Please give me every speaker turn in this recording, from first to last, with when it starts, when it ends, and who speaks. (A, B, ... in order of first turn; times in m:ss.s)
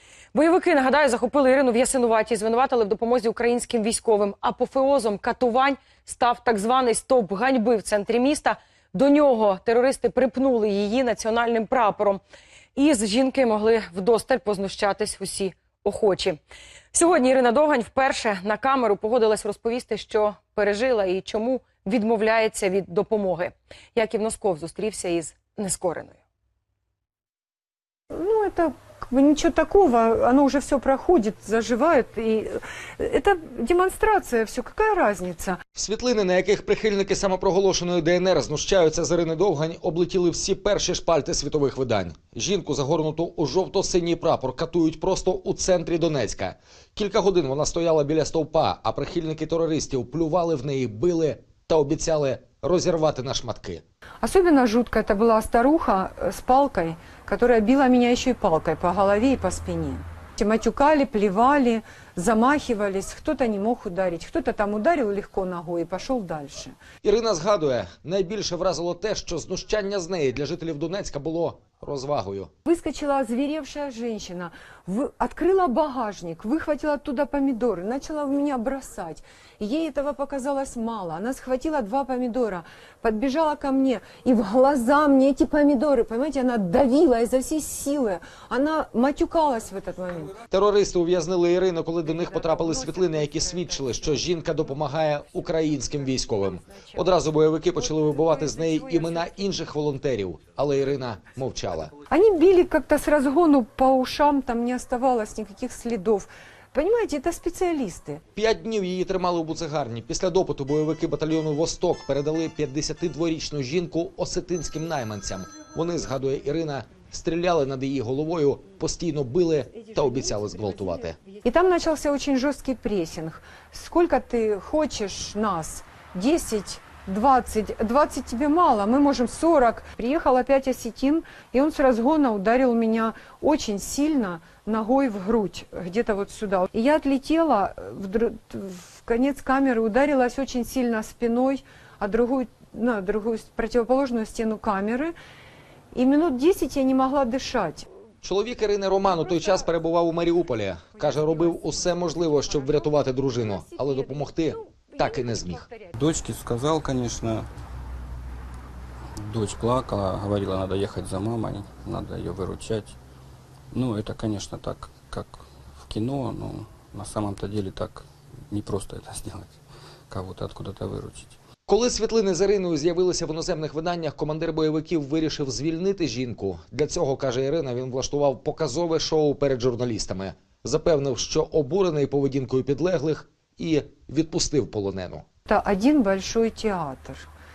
0:00.3-0:12.2 A
0:12.8-0:16.4 A
0:16.9-0:26.2 A
0:28.1-0:35.6 B
0:35.8-0:53.8 C
0:54.2-1:06.8 B
1:07.0-1:12.5 C
1:12.6-1:30.4 B
1:30.5-1:41.9 C
1:32.0-1:37.1 B
1:37.8-1:39.4 B
1:42.1-1:48.2 B
1:48.3-2:01.2 C
1:59.8-2:25.1 B
2:25.9-2:27.9 B
2:28.2-2:35.7 C
2:29.1-2:29.7 B
2:30.9-2:36.0 B
2:36.0-2:37.5 D
2:39.2-2:43.0 D
2:43.7-2:49.6 D
2:50.1-2:51.4 D
2:51.7-3:05.2 C
3:05.4-3:07.3 B